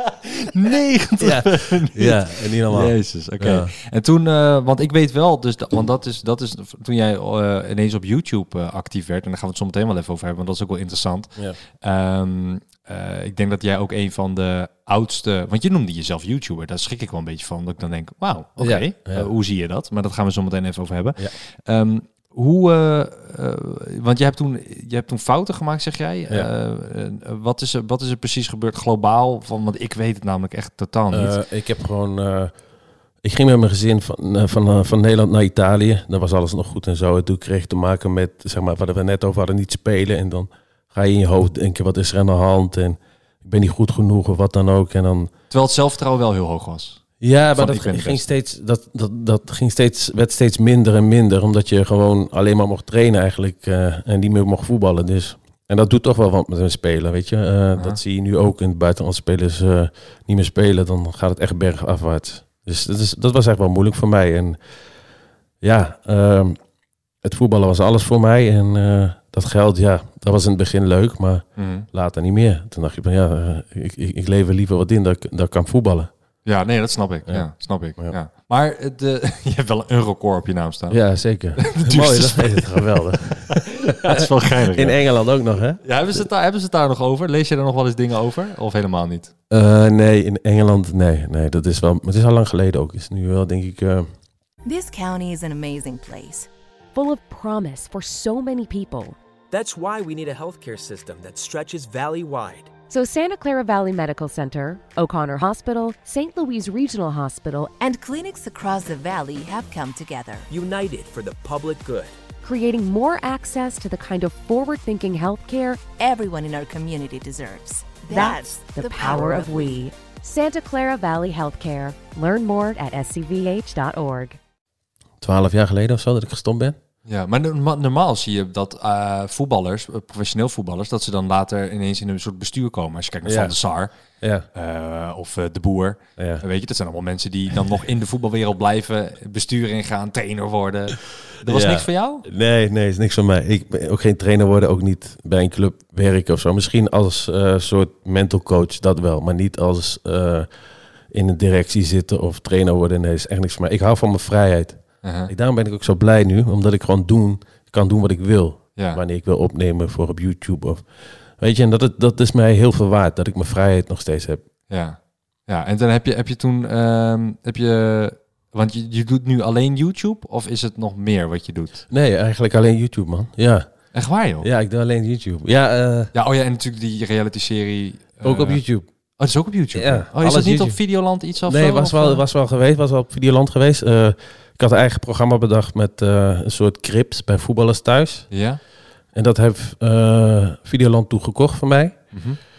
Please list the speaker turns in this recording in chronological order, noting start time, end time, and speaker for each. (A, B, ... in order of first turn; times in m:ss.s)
0:00.3-0:31.4 A
0:01.2-0:03.7 B
0:18.6-0:19.3 B
0:31.1-0:32.5 B
0:33.2-0:45.3 B
0:45.5-0:48.2 A
0:47.2-1:04.6 B
1:05.6-1:06.6 B
1:07.2-1:16.1 B
1:11.6-1:11.9 A
1:16.4-1:21.0 A
1:17.3-1:18.2 B
1:20.9-1:25.8 B
1:21.6-1:25.1 A
1:25.8-1:29.3 A
1:29.5-1:34.1 B
1:34.6-1:36.5 C
1:36.9-1:39.2 D
1:39.5-1:42.7 E
1:42.9-1:47.8 D
1:47.8-1:50.5 C
1:50.5-1:52.1 E
1:52.4-1:55.8 D
1:56.0-1:59.7 C
1:58.1-2:04.4 D
2:05.2-2:06.8 B
2:07.1-2:14.0 A
2:13.2-2:13.6 B
2:14.1-2:14.5 B
2:14.5-2:22.3 A
2:16.2-2:16.4 B
2:21.4-2:30.5 B
2:31.1-2:44.4 B
2:35.0-2:35.3 A
2:38.8-2:39.0 A
2:44.7-2:51.8 A
2:51.9-2:53.9 B
2:53.9-2:54.5 A
2:54.4-2:56.1 B
2:56.1-2:58.6 A
2:58.2-2:58.9 B
2:59.2-3:02.2 A
2:59.7-3:00.8 B
3:01.5-3:08.3 B
3:08.3-3:08.6 A
3:09.1-3:12.2 B
3:12.1-3:12.4 A